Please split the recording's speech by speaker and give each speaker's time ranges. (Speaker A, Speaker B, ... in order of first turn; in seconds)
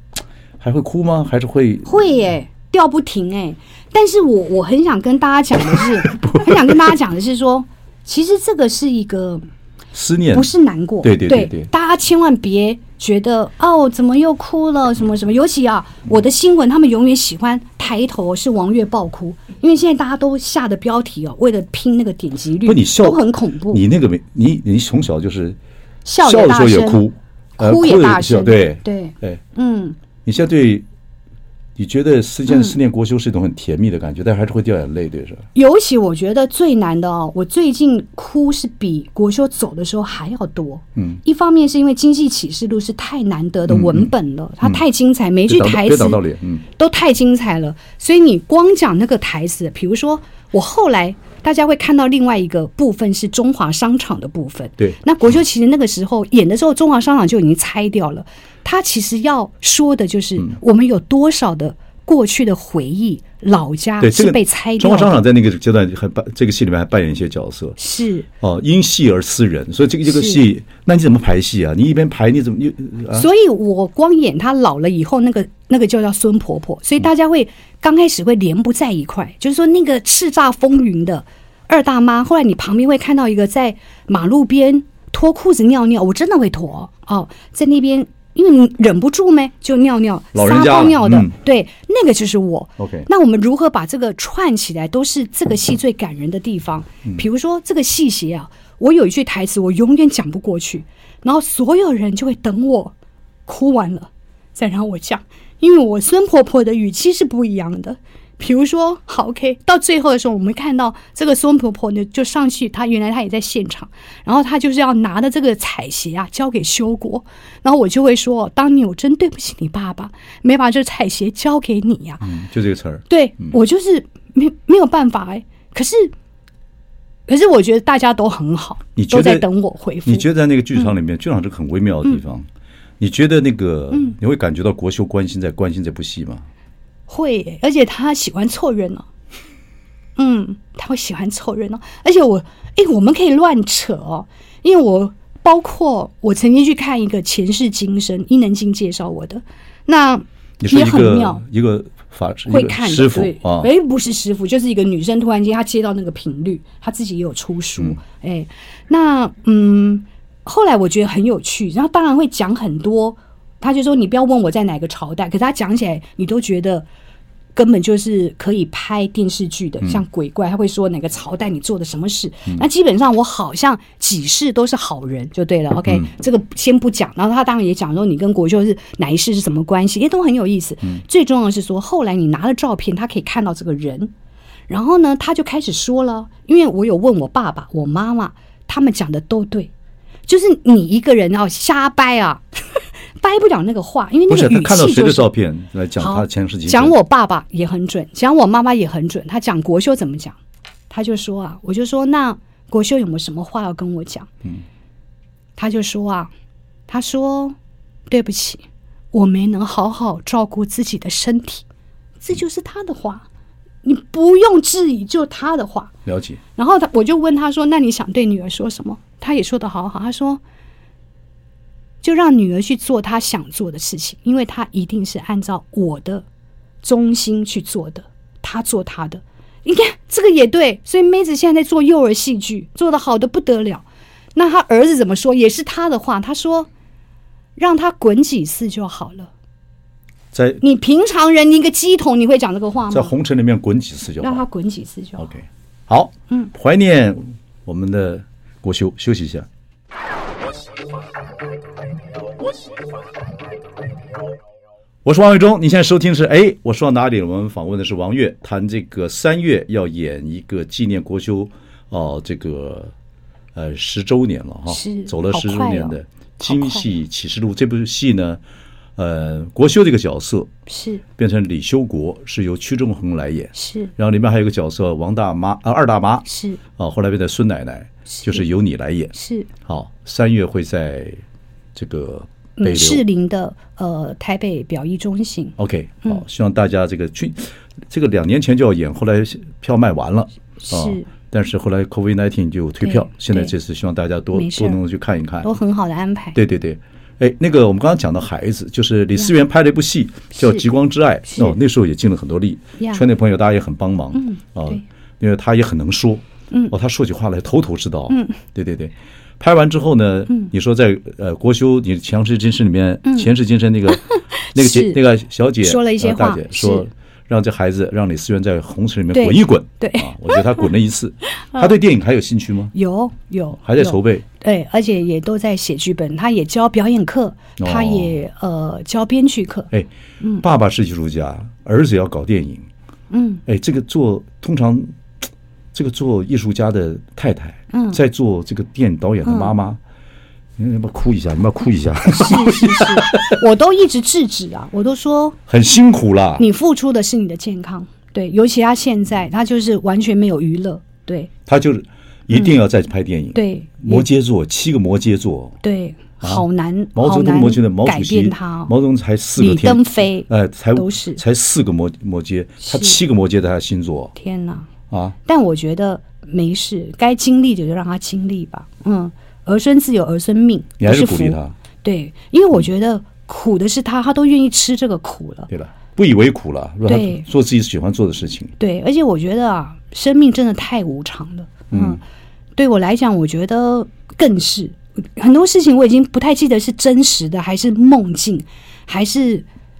Speaker A: 0.6-1.9, 5.8-6.7, 9.9-10.5, 11.0-11.7, 22.6-25.6, 26.2-29.4, 30.2-30.8, 31.8-35.4, 41.0-41.2, 43.7-44.1, 45.5-46.6, 64.0-67.8, 68.4-73.3, 90.3-91.3, 92.8-93.1, 122.2-123.5, 128.9-129.5, 130.0-132.5, 133.0-136.4, 150.6-153.7, 194.3-196.9, 216.1-216.4, 240.3-240.6, 242.9-244.4, 245.2-249.5, 255.0-262.9, 263.5-268.4, 269.0-270.5, 271.2-279.1, 279.6-281.2, 281.7-283.0, 285.6-295.5, 296.3-322.7, 323.6-324.2, 327.6-328.2, 330.4-332.6, 333.4-334.9, 335.7-339.8, 340.6-343.4, 345.5-346.4, 351.4-355.6, 356.2-364.1, 364.9-365.1, 370.8-371.5, 375.5-378.5, 381.7-382.0
Speaker B: 1.8-9.4, 10.3-23.8, 26.0-27.1, 27.6-29.9, 32.5-32.7, 35.5-46.2, 46.7-65.2, 67.8-68.3, 70.1-70.4, 73.1-102.9, 103.5-122.3, 123.1-126.1, 127.3-130.9, 133.9-134.2, 137.1-139.1, 140.2-151.4, 152.5-166.9, 167.5-184.1, 184.7-189.7, 190.3-192.4, 193.2-195.3, 196.0-200.4, 200.9-204.3, 205.6-206.3, 206.9-207.6, 208.1-211.6, 212.2-213.2, 213.8-215.9, 216.6-220.4, 222.0-226.2, 226.8-233.8, 234.3-236.7, 237.6-239.3, 240.6-243.1, 244.2-245.3, 264.7-266.9, 270.7-271.0, 273.5-273.9, 276.3-276.6, 278.1-278.4, 279.1-279.5, 282.6-286.2, 290.6-291.1, 292.8-293.5, 294.3-294.8, 295.4-296.4, 300.3-300.6, 301.3-301.6, 302.8-303.0, 304.1-304.8, 308.1-308.4, 313.0-313.3, 314.1-315.0, 315.6-316.8, 319.1-320.4, 321.4-321.7, 322.7-330.4, 333.1-333.4, 337.7-338.0, 339.2-339.5, 342.1-345.4, 346.4-351.3, 353.3-354.1, 355.6-358.7, 359.4-361.2, 362.6-363.0, 364.1-364.7, 365.2-375.5, 376.9-377.2, 378.6-382.0, 382.6-389.5